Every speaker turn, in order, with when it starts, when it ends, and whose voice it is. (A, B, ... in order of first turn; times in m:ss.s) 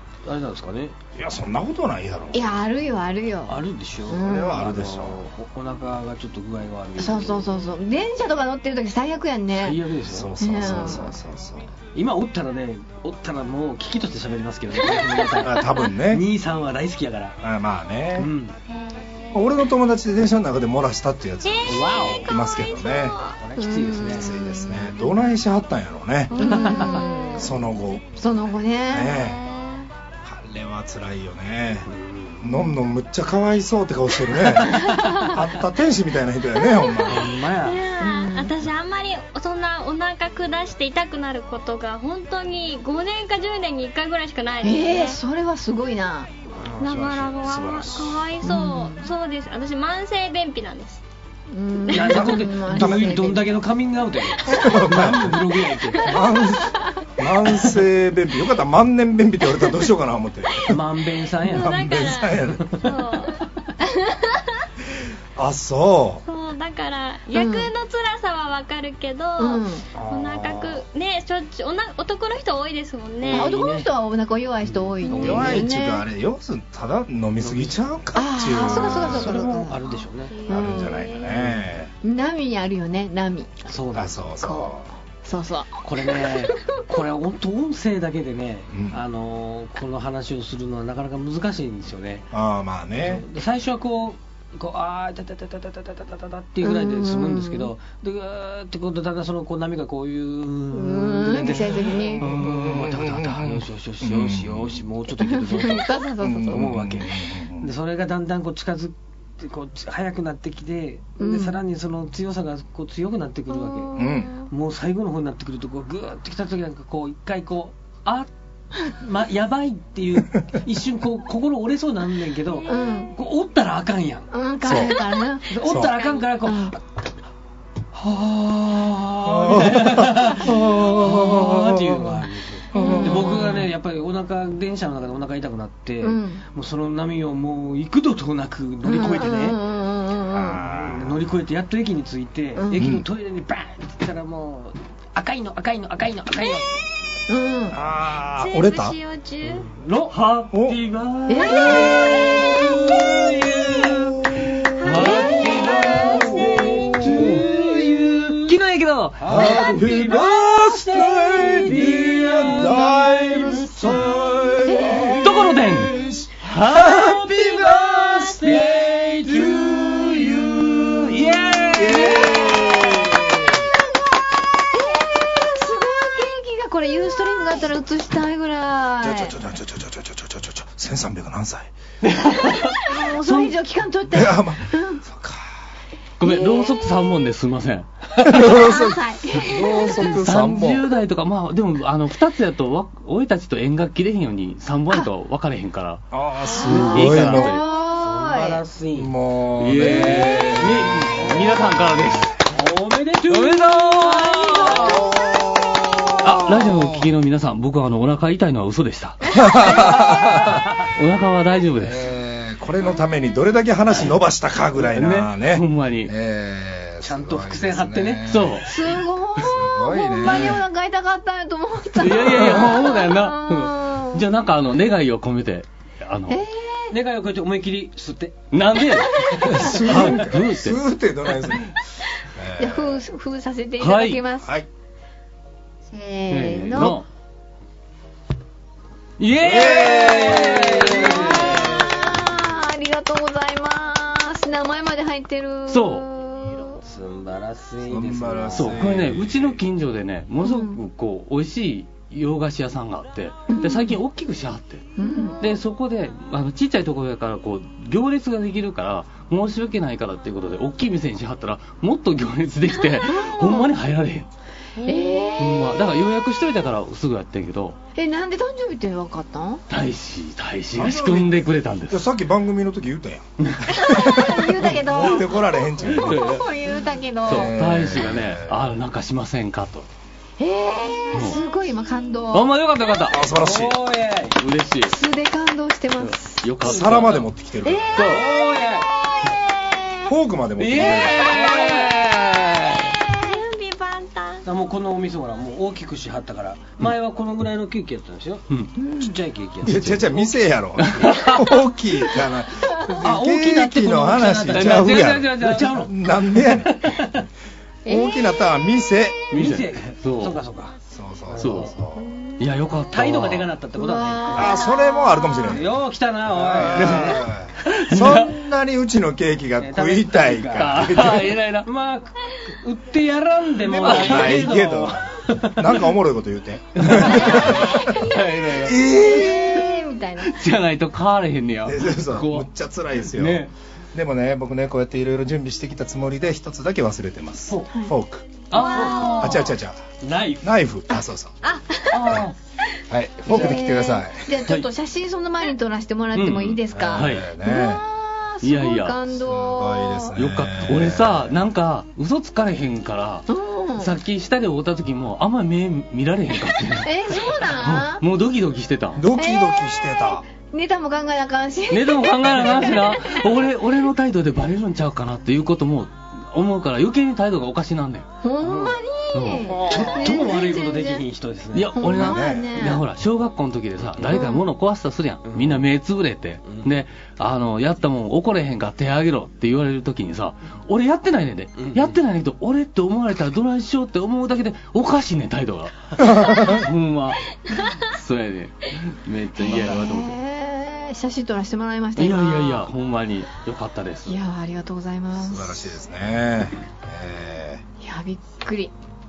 0:00.2-0:01.0 A
0:01.1-0:02.5 B
0:02.3-0:04.6 C
0:03.5-0:07.5 A
0:04.1-0:05.2 B
0:07.0-0:09.8 C
0:09.5-0:11.0 A
0:10.1-0:11.7 B
0:10.4-0:11.1 C
0:11.9-0:17.4 A
0:15.4-0:16.2 B
0:17.4-0:18.3 B
0:18.2-0:18.6 A
0:18.7-0:19.4 D
0:19.3-0:23.2 B
0:21.4-0:23.4 D
0:21.7-0:22.3 A
0:23.3-0:24.3 A
0:23.6-0:25.0 C
0:24.1-0:26.8 B
0:26.4-0:27.5 D
0:26.4-0:27.0 A
0:26.4-0:27.5 C
0:27.4-0:28.0 B
0:28.1-0:29.2 C
0:28.9-0:29.4 B
0:29.1-0:29.9 D
0:30.2-0:31.9 B
0:31.9-0:32.6 A
0:32.4-0:37.4 B
0:34.4-0:35.3 A
0:35.0-0:35.3 D
0:37.0-0:37.8 A
0:37.6-0:45.2 D
0:38.0-0:38.6 C
0:44.6-0:46.3 C
0:46.5-0:48.2 A
0:46.8-0:51.0 D
0:48.4-0:49.1 C
0:51.5-0:53.4 C
0:51.9-0:56.1 A
0:52.0-0:53.2 B
0:54.4-0:55.4 B
0:56.0-1:00.8 B
1:00.6-1:01.8 A
1:01.4-1:04.6 D
1:01.5-1:02.8 B
1:02.6-1:03.0 A
1:05.4-1:06.2 B
1:06.2-1:13.6 D
1:07.3-1:07.7 C
1:09.4-1:09.8 C
1:10.0-1:10.8 A
1:13.2-1:13.9 A
1:13.3-1:16.0 C
1:14.6-1:15.6 A
1:15.1-1:15.4 D
1:15.1-1:19.5 B
1:17.4-1:17.8 A
1:18.1-1:19.8 C
1:18.6-1:20.5 A
1:20.3-1:21.4 D
1:20.4-1:21.1 C
1:20.5-1:21.9 B
1:21.3-1:21.6 A
1:22.0-1:23.7 C
1:23.6-1:24.3 A
1:23.9-1:24.9 B
1:24.4-1:26.6 C
1:25.8-1:32.3 A
1:28.7-1:29.0 B
1:32.3-1:33.2 B
1:33.0-1:46.0 A
1:36.6-1:37.7 C
1:40.7-1:42.3 C
1:42.2-1:44.8 B
1:45.2-1:46.7 C
1:46.2-1:47.7 B
1:46.5-1:53.9 A
1:51.2-1:51.6 C
1:53.9-1:54.5 D
1:54.0-1:54.3 B
1:54.5-1:58.3 A
1:58.9-2:04.3 A
2:02.7-2:03.1 C
2:04.3-2:05.5 C
2:04.6-2:05.0 B
2:05.5-2:06.8 A
2:05.6-2:06.0 B
2:05.7-2:06.3 D
2:06.4-2:06.8 C
2:07.9-2:19.6 A
2:09.2-2:13.6 B
2:12.7-2:13.6 C
2:16.0-2:16.4 C
2:18.8-2:20.6 C
2:20.3-2:21.2 B
2:20.6-2:26.7 A
2:22.6-2:22.9 C
2:22.7-2:23.0 B
2:27.3-2:27.8 C
2:27.7-2:29.0 B
2:28.4-2:29.7 D
2:29.4-2:30.2 A
2:30.1-2:31.9 E
2:30.5-2:30.8 B
2:31.3-2:32.7 C
2:31.7-2:34.7 B
2:31.7-2:32.9 D
2:31.8-2:34.0 A
2:34.8-2:36.9 D
2:34.8-2:37.4 E
2:34.8-2:38.5 A
2:34.9-2:36.5 C
2:36.0-2:38.2 B
2:38.4-2:39.6 E
2:39.2-2:44.1 A
2:39.2-2:53.6 B
2:41.8-2:42.5 E
2:44.6-2:45.4 C
2:45.2-2:47.4 E
2:46.8-2:50.4 A
2:50.2-2:52.4 E
2:52.1-2:52.9 C
2:54.6-2:59.3 C
2:59.0-3:01.7 B
3:02.0-3:03.5 E
3:02.7-3:05.0 C
3:04.1-3:05.6 B
3:06.2-3:08.5 E
3:06.2-3:07.1 C
3:08.2-3:10.9 B
3:08.4-3:10.1 C
3:10.0-3:16.0 E
3:16.1-3:17.6 B
3:16.5-3:18.6 C
3:16.6-3:17.6 E
3:17.7-3:19.1 A
3:18.9-3:22.2 B
3:19.6-3:22.3 E
3:19.8-3:21.7 A
3:22.4-3:25.1 A
3:23.3-3:25.0 E
3:24.9-3:27.1 B
3:26.2-3:29.4 E
3:29.3-3:30.6 B
3:30.8-3:32.0 E
3:31.8-3:40.6 B
3:34.8-3:36.1 E
3:37.0-3:38.3 A
3:38.3-3:38.7 E
3:38.6-3:44.2 C
3:42.0-3:46.4 E
3:42.2-3:42.7 B
3:46.3-3:47.0 C
3:46.9-3:48.5 A
3:48.5-3:50.8 E
3:48.9-3:49.7 C
3:49.3-3:50.1 A
3:49.4-3:51.8 B
3:52.3-3:53.0 B
3:52.6-3:54.5 C
3:53.8-3:54.2 E
3:54.4-3:54.7 B
3:55.9-3:57.0 C
3:56.3-3:57.0 E
3:59.2-4:01.4 E
3:59.4-4:02.2 B
3:59.6-4:01.8 A
4:01.0-4:06.8 C
4:05.7-4:06.0 E
4:06.8-4:08.8 A
4:07.8-4:09.6 B
4:08.6-4:14.9 E
4:10.4-4:10.8 C
4:13.5-4:14.0 C
4:15.0-4:15.4 C
4:15.4-4:24.3 E
4:23.0-4:23.7 C
4:24.8-4:25.3 D
4:24.8-4:25.9 C
4:25.4-4:27.8 E
4:27.9-4:29.6 C
4:29.7-4:32.0 E
4:30.7-4:36.3 B
4:33.7-4:37.5 C
4:35.9-4:36.4 E
4:37.2-4:39.9 E
4:37.3-4:38.8 B
4:40.4-4:42.5 C
4:41.1-4:41.4 E
4:42.3-4:43.2 E
4:43.1-4:43.8 B
4:43.3-4:44.4 A
4:44.4-4:44.9 E
4:44.8-4:46.5 C
4:46.0-4:47.3 E
4:46.6-4:48.1 B
4:47.6-4:50.1 C
4:47.9-4:48.3 E
4:48.0-4:48.9 A
4:50.1-4:51.4 B
4:50.6-4:53.0 E
4:50.7-4:51.9 A
4:53.0-4:54.4 D
4:54.4-5:00.3 A
4:58.8-4:59.1 C
4:59.6-5:06.9 B
5:00.8-5:01.6 E
5:02.9-5:07.2 A
5:04.5-5:05.9 E
5:07.8-5:08.7 C
5:07.8-5:09.3 B
5:09.3-5:10.8 A
5:09.3-5:10.4 E
5:10.9-5:12.1 B
5:11.3-5:11.7 A
5:11.4-5:11.7 E
5:12.0-5:12.4 C
5:12.4-5:13.5 E
5:12.9-5:14.6 A
5:13.8-5:15.6 C
5:14.3-5:15.8 B
5:15.4-5:17.3 A
5:16.3-5:21.3 B
5:16.7-5:18.4 E
5:19.6-5:25.8 A
5:20.5-5:21.7 E
5:23.6-5:28.0 B
5:23.8-5:24.5 E
5:26.8-5:28.8 E
5:27.3-5:28.0 C
5:28.5-5:29.7 B
5:28.8-5:30.4 C
5:30.2-5:32.5 E
5:31.6-5:38.5 B
5:33.1-5:33.5 E
5:38.5-5:39.4 E
5:38.5-5:39.4 D
5:38.6-5:39.3 A
5:39.2-5:39.8 B
5:40.0-5:40.5 A
5:40.4-5:41.4 B
5:41.4-5:41.9 D
5:41.9-5:42.3 E
5:42.9-5:44.4 B
5:43.3-5:50.2 C
5:46.1-5:47.3 E
5:46.7-5:47.8 B
5:48.4-5:49.0 E
5:49.1-5:51.4 B
5:50.2-5:53.2 E
5:53.3-5:53.9 C
5:53.8-5:59.0 E
5:56.8-5:58.0 C
5:59.0-6:00.2 B
5:59.1-6:03.3 C
6:01.7-6:08.1 E
6:08.2-6:11.0 C
6:08.4-6:08.8 A
6:09.1-6:10.1 E
6:09.6-6:11.7 A
6:11.5-6:30.1 E
6:11.7-6:12.8 C
6:11.8-6:12.6 B
6:14.1-6:14.4 C
6:15.2-6:15.6 A
6:21.6-6:22.0 A
6:26.0-6:26.6 B
6:29.4-6:32.7 C
6:32.0-6:34.2 E
6:34.1-6:35.6 C
6:35.2-6:37.6 B
6:37.8-6:38.7 C